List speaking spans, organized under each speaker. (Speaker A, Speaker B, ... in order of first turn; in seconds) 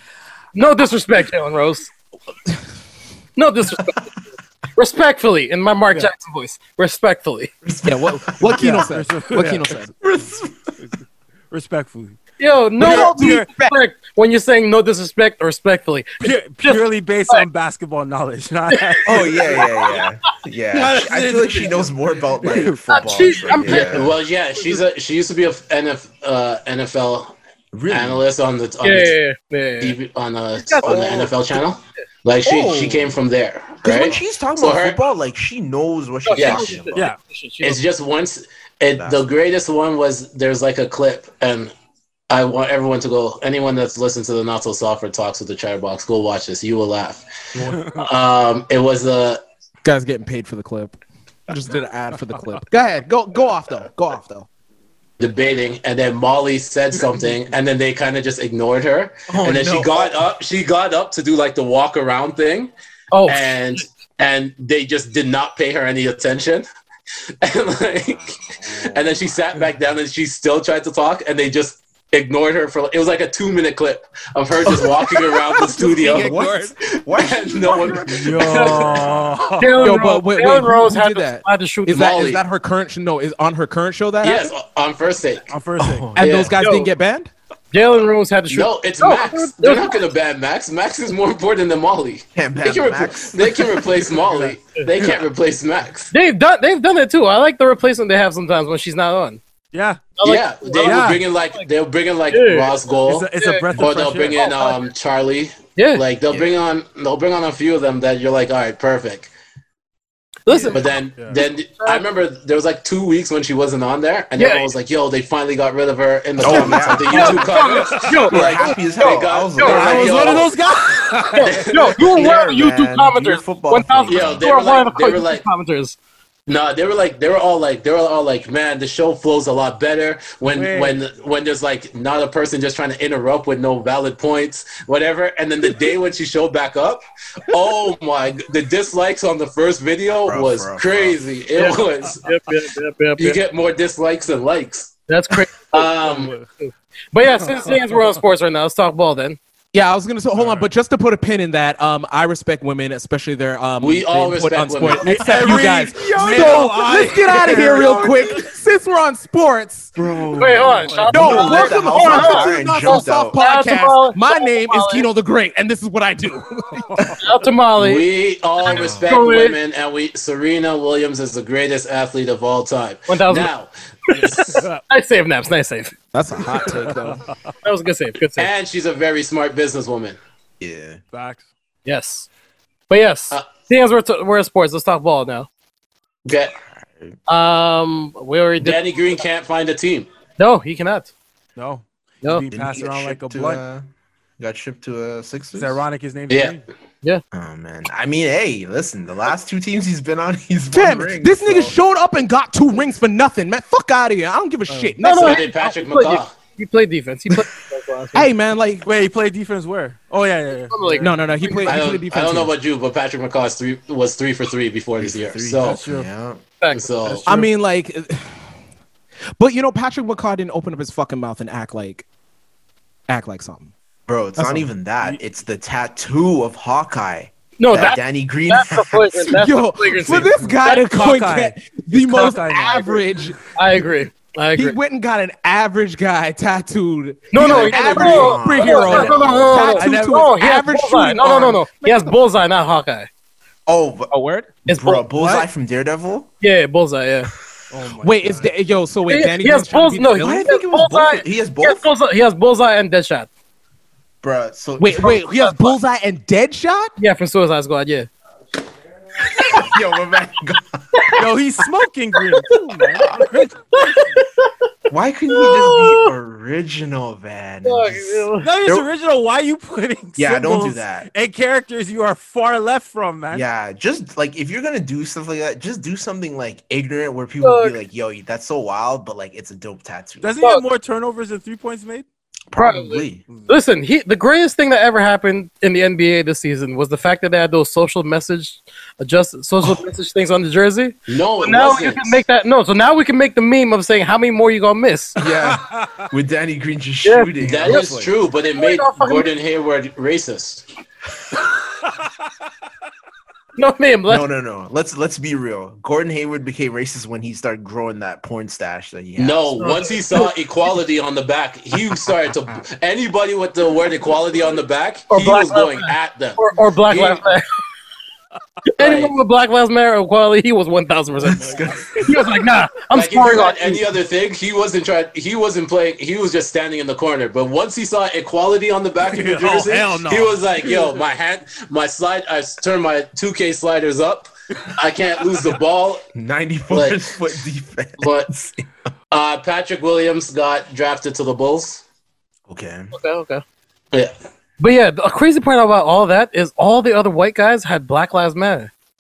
Speaker A: 0.6-1.9, 3.4-4.1, 4.8-7.5, 12.4-17.4, 18.7-20.0, 22.9-24.8, 28.8-30.0, 30.6-31.3, 36.2-37.8, 63.1-63.8, 79.6-82.0, 86.6-86.9, 87.7-90.0, 96.1-99.4, 100.2-101.7, 102.3-102.8, 103.4-103.8, 104.4-104.8, 105.8-106.0, 110.5-110.8, 111.3-112.0, 114.4-114.7, 117.1-120.4, 121.3-126.0, 141.6-143.4, 145.1-145.8, 146.6-149.4, 160.4-165.1, 167.2-168.1, 168.7-169.6, 173.1-173.5, 174.1-175.9, 177.6-178.5, 181.9-182.3, 182.9-185.5, 187.3-188.8, 190.4-191.1, 205.0-208.3, 210.7-211.8, 216.6-217.2, 227.6-230.9, 233.6-234.8, 237.3-243.1, 244.7-245.0, 246.4-247.3, 249.1-253.3, 255.1-255.8, 257.0-258.1, 259.3-259.6, 263.7-264.5, 265.3-266.1, 267.6-268.5, 277.4-277.8, 282.6-295.2, 297.0-297.9, 298.5-299.3, 303.6-304.2, 309.6-310.3, 315.1-317.4, 318.8-323.8, 342.9-343.4, 344.6-348.7
Speaker B: 7.6-8.9, 10.0-10.7, 19.1-24.2, 27.7-28.2, 30.8-31.3, 32.4-33.2, 33.8-37.0, 59.3-60.2, 74.7-79.4, 85.9-86.4, 92.3-93.9, 106.3-106.6, 110.5-110.8, 116.4-117.5, 118.2-120.5, 122.0-124.5, 140.2-141.2, 156.2-158.3, 160.0-163.4, 168.7-169.1, 180.6-181.0, 186.8-187.2, 192.5-193.9, 194.4-195.8, 197.3-201.8, 215.0-216.4, 224.1-229.3, 237.4-239.8, 243.7-244.1, 244.7-246.3, 250.2-251.9, 254.2-255.2, 259.4-261.2, 263.0-263.4, 264.9-268.9, 270.2-271.1, 273.3-280.4, 282.5-283.2, 295.2-298.1, 304.1-309.5, 321.3-322.2, 336.1-338.7, 342.5-342.9
Speaker C: 7.8-9.9, 12.8-13.8, 49.8-51.0, 51.5-54.5, 76.0-76.6, 79.8-84.5, 86.2-87.3, 116.4-117.4, 149.7-159.9, 161.1-167.2, 176.1-177.2, 200.7-205.4, 208.1-208.9, 211.0-212.5, 217.3-218.4, 219.4-222.1, 223.1-223.7, 224.4-224.7, 229.3-233.4, 234.6-242.2, 244.1-244.5, 248.0-250.5, 254.8-256.9
Speaker D: 8.5-9.7, 11.5-12.2, 12.8-13.5, 16.2-19.6, 20.7-23.6, 47.6-48.0, 78.1-79.9, 85.5-86.1, 94.2-95.2, 99.7-100.1, 100.8-101.2, 103.0-104.5, 117.9-118.3, 119.6-121.7, 130.5-131.0, 146.1-146.4, 147.4-148.1, 150.3-150.7, 154.9-158.5, 160.6-161.6, 166.8-167.2, 174.2-174.8, 176.6-177.2, 181.1-181.5, 191.6-193.6, 195.5-196.7, 208.8-211.1, 215.6-216.1, 230.6-233.2, 239.6-240.2, 245.2-245.5, 247.7-248.5, 261.2-264.0, 268.4-273.5, 280.2-282.1, 295.3-296.0, 321.4-321.7, 329.0-331.0
Speaker E: 23.7-27.4, 27.9-29.2, 29.8-35.0, 36.3-36.8, 37.6-41.7, 42.3-49.4, 55.2-62.7, 63.3-66.7, 67.4-76.4, 77.1-79.1, 81.9-82.4, 84.2-85.5, 86.2-86.6, 88.5-96.1, 100.2-109.3, 110.7-120.5, 121.4-122.3, 124.1-125.4, 126.5-142.3, 143.2-144.9, 145.7-146.4, 153.8-155.6, 167.8-174.6, 178.4-180.2, 186.2-186.5, 188.6-190.1, 196.3-196.6, 205.1-206.3, 211.6-215.8, 216.7-217.3, 291.1-292.2, 297.4-300.6, 309.2-317.2, 318.8-319.1, 322.9-336.1, 336.7-337.1, 338.0-338.3, 339.1-341.8